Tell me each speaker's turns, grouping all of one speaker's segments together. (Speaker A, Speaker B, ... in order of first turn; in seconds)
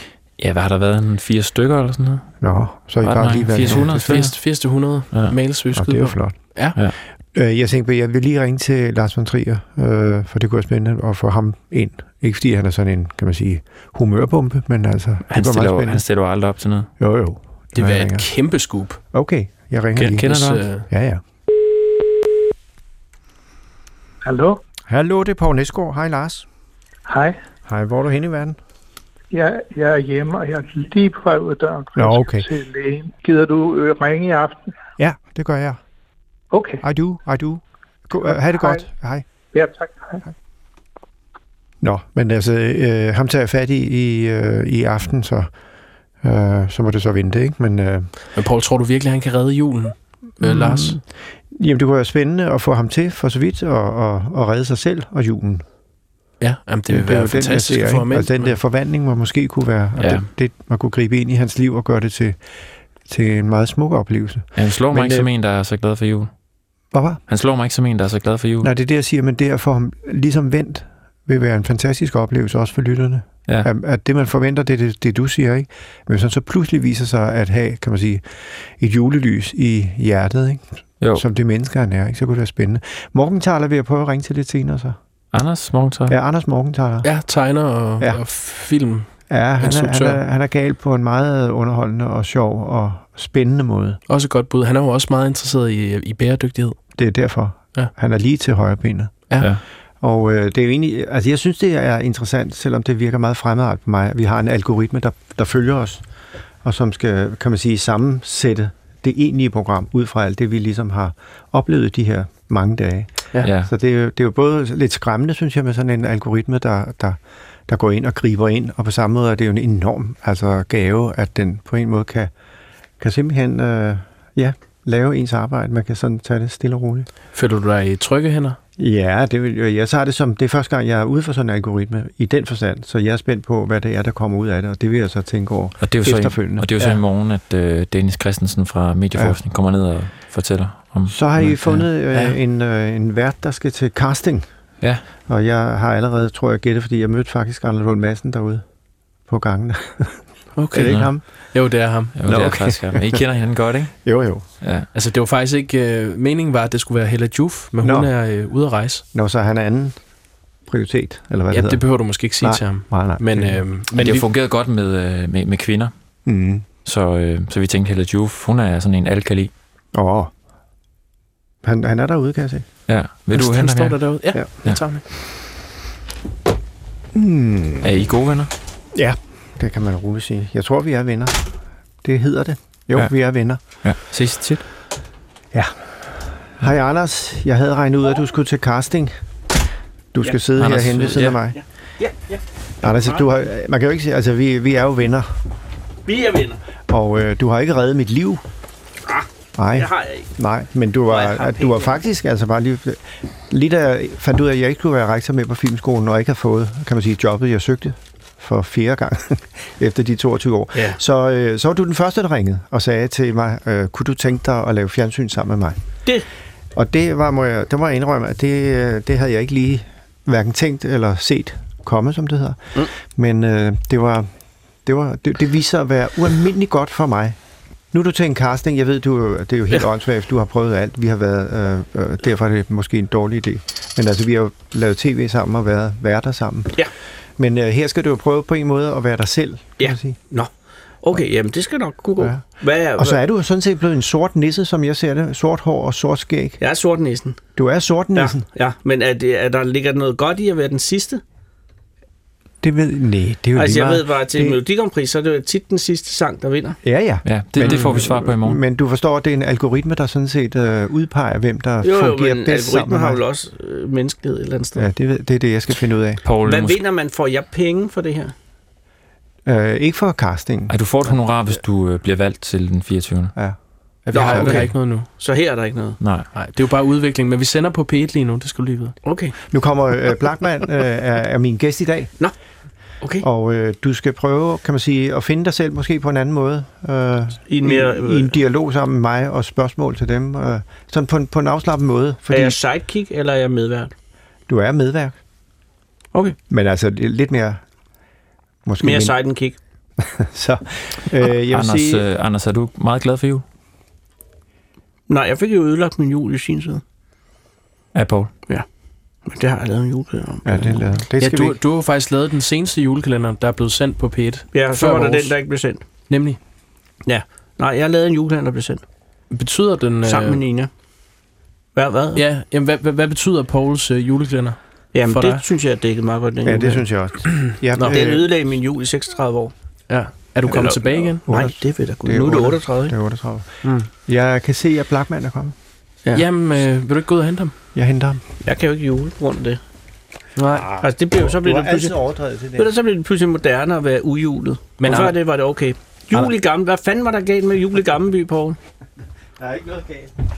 Speaker A: 0.4-2.3, 3.0-5.4, 15.3-16.9, 20.1-20.7, 60.0-60.3, 64.5-66.3, 67.3-68.7, 85.3-86.2, 113.4-113.7, 135.8-141.9, 150.8-151.1, 152.2-154.0, 154.6-154.9, 163.9-165.9, 166.8-169.5, 172.9-174.8, 177.8-178.5, 183.8-184.6, 190.6-191.4, 257.2-258.6, 266.2-266.8, 270.7-273.3, 276.0-276.3, 301.5-303.4, 307.9-308.3
Speaker B: 2.4-4.3, 5.7-6.4, 7.3-16.1, 17.0-18.3, 19.1-20.3, 20.9-21.2, 24.9-26.5, 27.7-28.6, 32.0-32.5, 35.0-35.8, 36.8-39.2, 41.8-45.5, 46.2-48.1, 50.4-55.6, 56.9-62.4, 63.1-65.3, 66.9-67.2, 68.6-78.2, 78.8-85.0, 86.1-87.1, 89.3-94.0, 97.0-99.2, 100.0-106.0, 106.6-122.3, 123.0-127.1, 128.8-137.0, 141.1-144.5, 145.3-148.6, 149.3-150.2, 150.7-151.2, 152.2-153.2, 154.0-154.5, 157.8-158.1, 159.1-159.9, 160.7-163.6, 166.2-166.7, 169.9-170.3, 171.6-172.7, 177.1-177.9, 178.9-181.4, 182.0-183.6, 186.5-189.1, 190.1-191.6, 192.8-195.3, 196.9-198.4, 199.6-215.8, 216.8-224.3, 224.8-227.4, 227.9-236.8, 237.4-240.2, 242.2-242.4, 243.0-246.6, 247.6-248.4, 252.6-254.6, 256.8-263.2, 264.8-266.2, 269.5-270.7, 274.1-274.7, 279.5-282.1, 283.2-292.6, 294.5-295.1, 296.5-297.6, 298.7-299.2, 300.0-302.0, 310.4-311.6, 326.4-328.3, 331.3-333.5, 334.1-335.6, 337.8-338.2, 340.5-342.7, 349.4-350.1
Speaker C: 3.7-6.8, 17.8-19.0, 20.0-20.9, 48.4-51.0, 56.4-58.6, 87.0-90.2, 94.1-96.8, 127.3-128.6, 150.6-152.2, 154.9-159.1, 161.5-164.3, 173.3-175.0, 257.6-258.0, 274.1-275.1, 276.3-278.9, 311.2-315.4, 316.1-316.4, 319.3-320.4, 322.2-325.4, 329.9-331.2, 336.1-337.5, 340.4-340.7, 344.8-345.1
Speaker D: 24.2-24.6, 27.1-27.4, 29.3-34.7, 36.5-36.8, 38.3-38.8, 39.5-40.2
Speaker E: 191.6-193.2, 196.1-196.6, 199.1-200.3, 201.1-202.0, 210.7-211.0, 239.8-240.5, 241.0-243.2, 246.6-247.4, 248.2-251.2, 253.6-256.8, 261.8-264.9, 266.4-268.3, 274.1-276.0, 279.0-279.4, 287.5-288.4, 292.3-293.9, 298.8-299.6, 305.1-306.8, 309.2-310.9, 314.5-315.8, 317.1-318.8, 320.1-320.7, 321.8-322.2, 324.9-326.9, 327.8-329.5, 330.5-332.9, 338.4-339.6, 340.8-342.0, 342.6-348.6